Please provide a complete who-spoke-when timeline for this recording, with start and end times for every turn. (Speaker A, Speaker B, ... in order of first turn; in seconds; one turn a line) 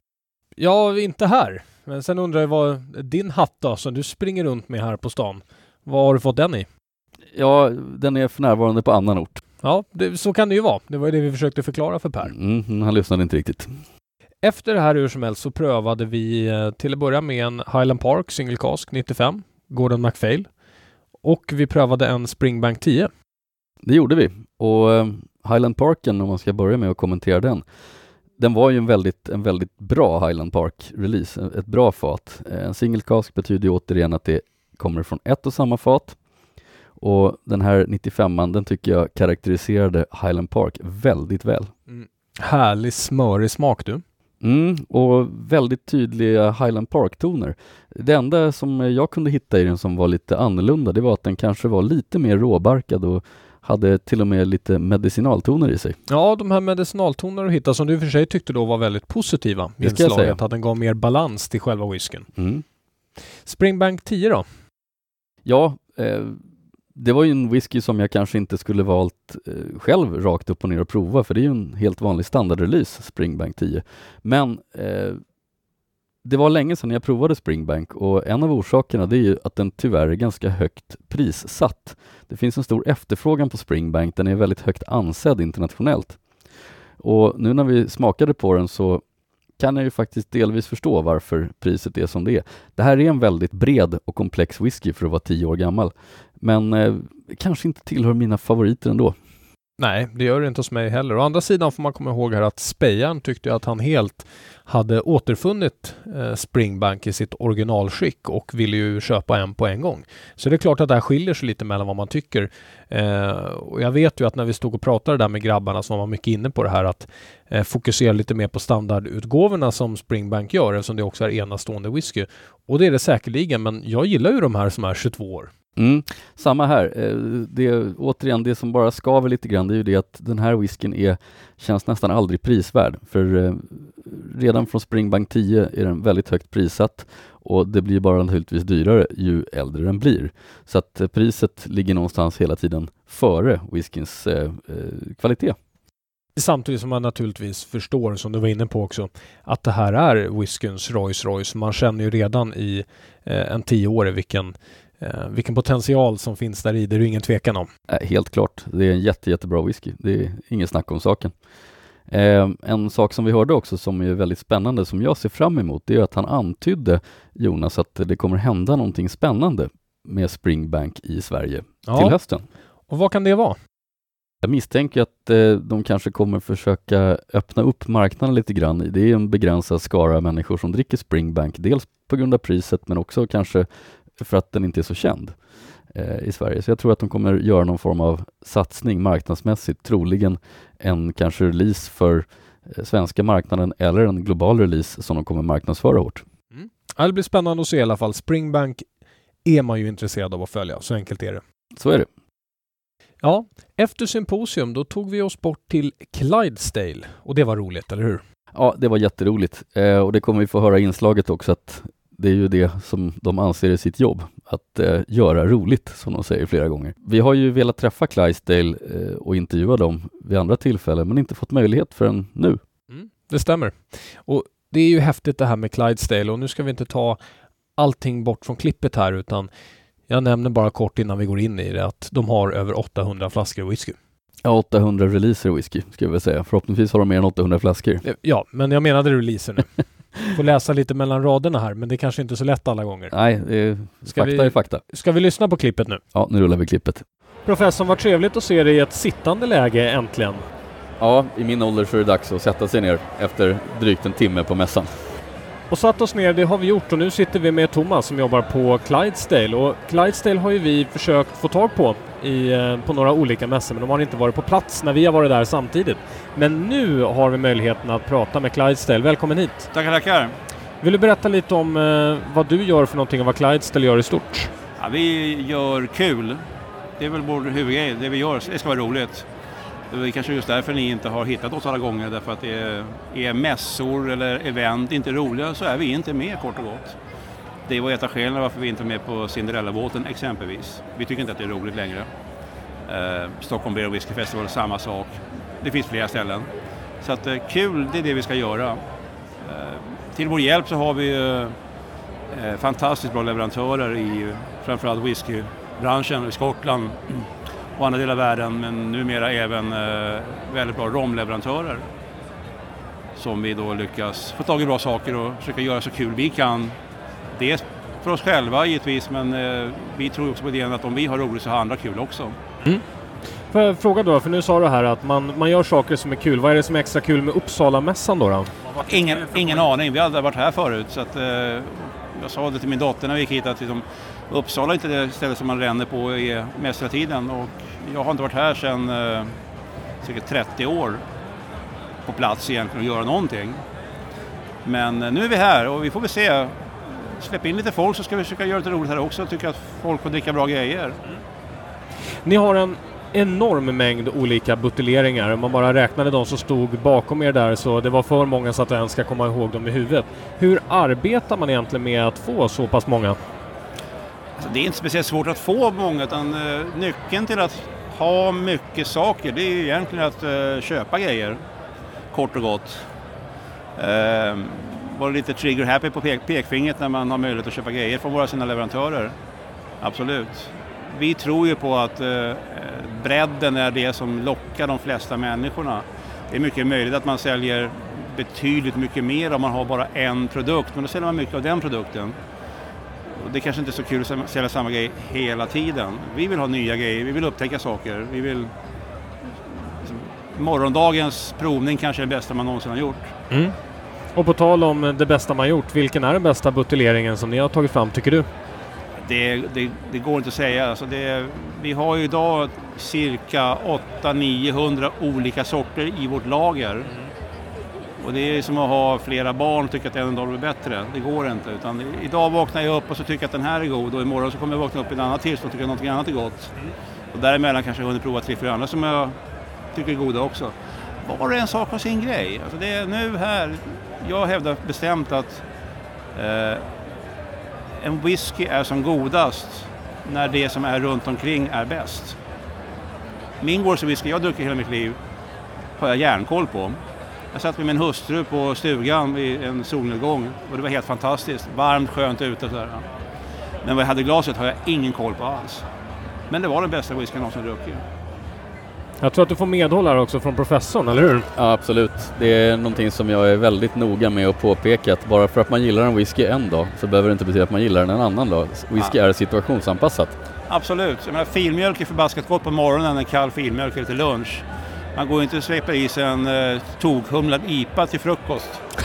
Speaker A: 0.6-6.7
Speaker B: 7.3-9.4
Speaker A: 9.6-12.3
Speaker B: 12.2-13.7
Speaker A: 14.4-20.5
Speaker A: 21.2-23.1
Speaker B: 23.8-27.6
Speaker B: 28.4-36.2
Speaker B: 37.0-41.7
Speaker A: 41.9-44.0
Speaker B: 44.4-56.0
Speaker A: 56.1-62.3
Speaker B: 59.8-60.4
Speaker B: 62.4-62.6
Speaker A: 63.4-64.5
Speaker B: 65.5-66.4
Speaker B: 67.0-75.2
Speaker B: 76.2-86.2
Speaker B: 87.0-89.0
Speaker B: 89.6-99.2
Speaker A: 99.8-125.5
Speaker B: 125.8-145.6
Speaker A: 146.4-157.7
Speaker B: 157.9-161.3
Speaker B: 162.1-172.4
Speaker A: 171.9-172.2
Speaker A: 172.9-173.6
Speaker B: 174.4-185.3
Speaker B: 185.9-196.2
Speaker A: 196.5-198.8
Speaker A: 199.4-201.4
Speaker B: 201.7-202.1
Speaker A: 203.2-208.2
Speaker B: 208.5-222.6
Speaker A: 222.9-227.2
Speaker A: 227.8-229.5
Speaker A: 230.1-234.0
Speaker B: 234.4-238.0
Speaker A: 238.0-243.1
Speaker B: 243.1-244.8
Speaker A: 244.1-246.0
Speaker B: 246.1-247.0
Speaker A: 247.5-250.4
Speaker B: 251.0-254.9
Speaker A: 255.7-269.7
Speaker C: 269.7-270.4
Speaker A: 270.8-274.5
Speaker C: 274.8-276.4
Speaker C: 277.0-279.3
Speaker C: 279.9-287.0
Speaker C: 287.7-292.1
Speaker C: 292.9-298.8
Speaker C: 299.4-301.6
Speaker C: 302.3-311.9
Speaker C: 313.1-316.8
Speaker C: 317.3-322.4
Speaker A: 323.5-328.5
Speaker C: 328.8-339.4
Speaker C: 340.0-341.0
Speaker C: 342.1-343.6
Speaker C: 344.6-351.0
Speaker A: 352.2-363.2
Speaker C: 364.4-371.4
Speaker C: 372.1-372.9
Speaker C: 373.8-379.1
Speaker C: 379.8-392.2
Speaker C: 393.1-398.5
Speaker C: 399.5-403.1
Speaker A: 403.3-403.6
Speaker A: 404.1-408.3
Speaker C: 409.0-416.9
Speaker C: 418.0-426.6
Speaker C: 427.1-429.2
Speaker C: 429.7-435.4
Speaker C: 436.1-436.7
Speaker C: 437.8-442.2
Speaker C: 443.4-445.0
Speaker C: 445.8-446.8
Speaker C: 447.3-452.9
Speaker C: 453.6-455.6
Speaker C: 456.3-457.9
Speaker A: 459.0-461.3
Speaker B: 461.4-470.1
Speaker C: 470.5-478.7